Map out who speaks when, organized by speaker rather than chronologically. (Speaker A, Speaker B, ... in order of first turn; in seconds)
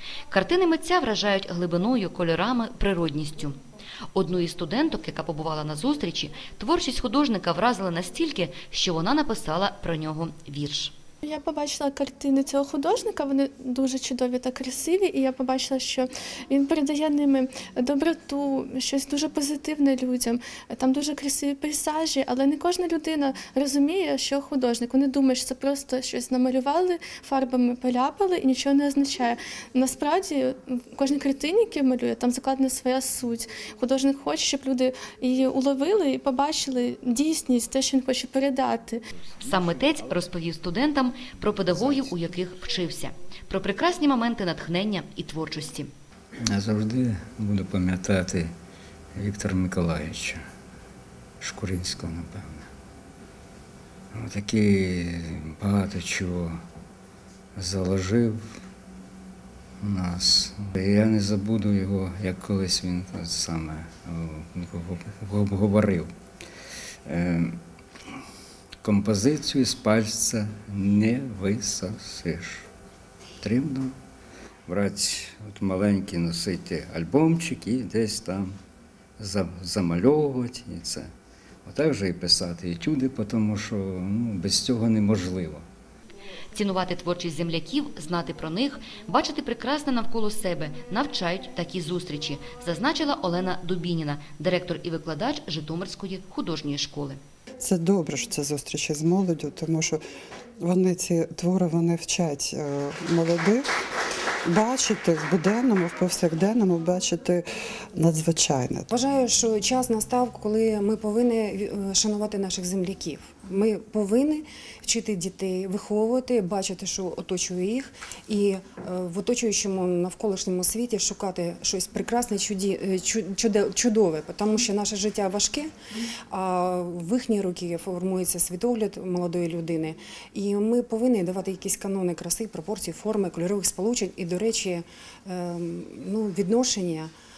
Speaker A: 0.3-3.6, 4.1-10.9, 39.4-45.9, 86.5-97.2
Speaker B: 11.2-39.0
Speaker C: 46.4-48.5, 49.1-50.4, 51.4-52.7, 54.1-56.6, 57.5-58.5, 59.8-66.1, 67.0-67.6, 68.8-72.7, 73.4-73.9, 74.7-78.5, 79.2-81.1, 81.6-85.6
Speaker D: 97.6-100.0, 100.6-103.7, 104.4-108.9
Speaker E: 108.9-125.7, 126.3-137.1